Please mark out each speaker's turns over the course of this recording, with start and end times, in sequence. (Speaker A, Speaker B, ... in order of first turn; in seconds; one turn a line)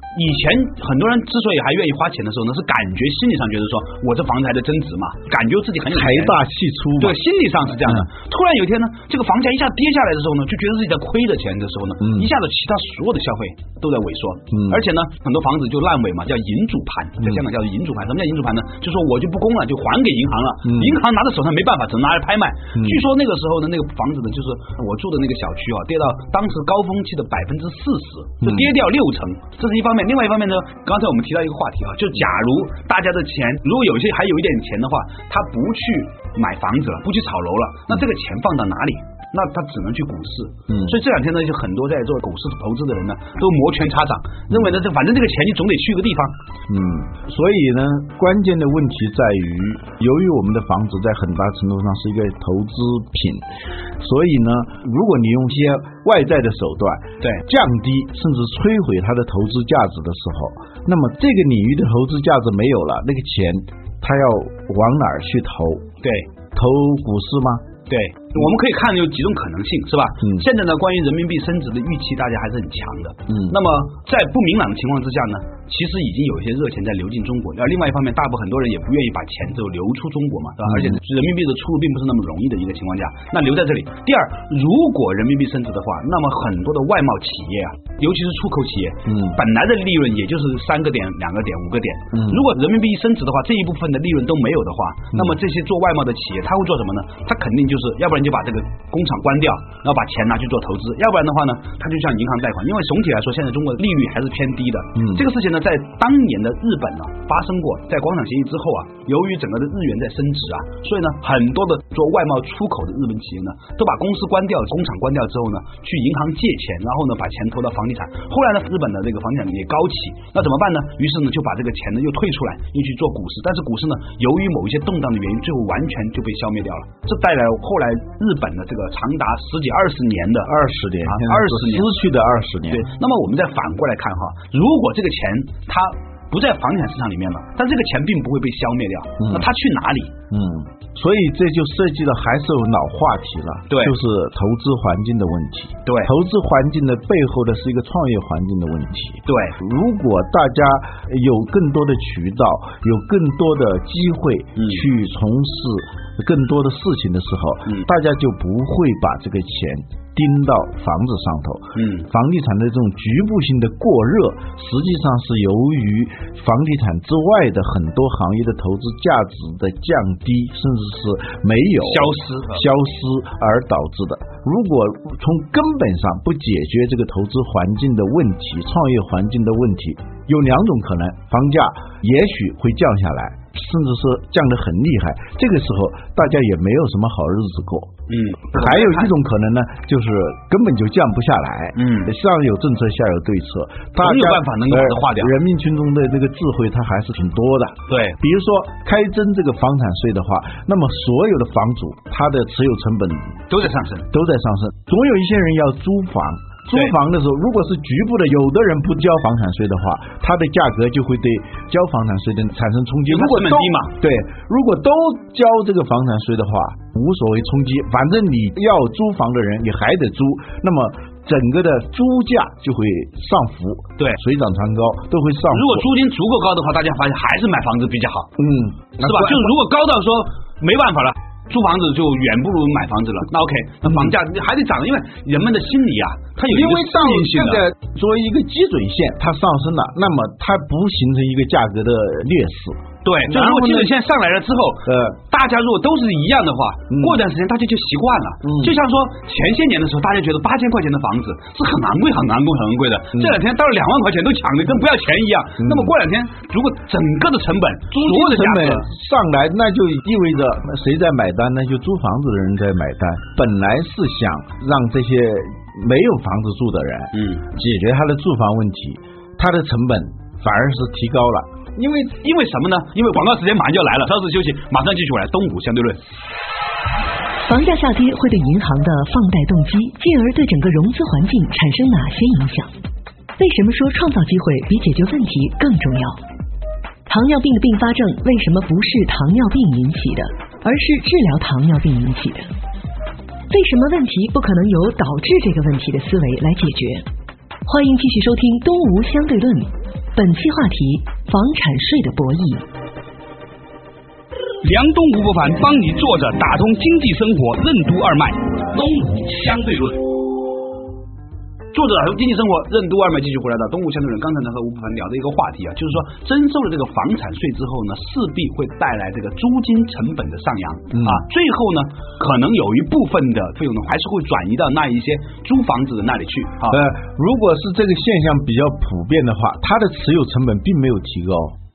Speaker A: 0.1-6.4
Speaker B: 5.9-7.2
Speaker A: 7.0-46.4
Speaker B: 12.0-12.3
Speaker B: 14.5-14.8
Speaker B: 20.6-21.0
Speaker B: 22.8-23.0
Speaker B: 28.4-28.7
Speaker B: 40.7-41.0
Speaker B: 46.7-53.5
Speaker B: 54.0-65.9
Speaker A: 66.0-66.3
Speaker B: 66.5-67.7
Speaker A: 67.9-130.5
Speaker B: 73.3-73.6
Speaker B: 80.7-80.9
Speaker B: 89.1-89.4
Speaker B: 92.1-92.4
Speaker B: 105.0-105.2
Speaker B: 130.4-132.9
Speaker A: 131.0-131.9
Speaker A: 132.7-140.2
Speaker B: 139.2-139.5
Speaker B: 140.3-187.9
Speaker A: 143.7-144.0
Speaker A: 145.9-146.1
Speaker A: 149.3-149.6
Speaker A: 154.6-154.9
Speaker A: 161.8-162.1
Speaker A: 171.8-172.7
Speaker A: 188.1-189.1
Speaker B: 188.5-203.4
Speaker A: 191.8-192.1
Speaker A: 194.0-195.3
Speaker A: 197.9-198.2
Speaker A: 203.5-204.1
Speaker B: 204.1-225.8
Speaker A: 213.1-213.9
Speaker A: 225.5-228.3
Speaker B: 228.4-229.5
Speaker A: 229.0-237.7
Speaker B: 233.9-234.1
Speaker B: 236.5-243.9
Speaker A: 243.0-258.9
Speaker B: 244.9-245.2
Speaker B: 246.9-247.2
Speaker B: 248.4-248.8
Speaker B: 255.6-255.9
Speaker B: 257.9-271.8
Speaker A: 267.1-267.4
Speaker A: 271.8-276.1
Speaker C: 277.4-282.7
Speaker C: 283.4-286.2
Speaker C: 287.1-292.5
Speaker C: 293.5-297.1
Speaker C: 297.6-302.6
Speaker A: 304.6-310.0
Speaker A: 311.7-326.8
Speaker B: 320.9-321.2
Speaker B: 326.7-331.6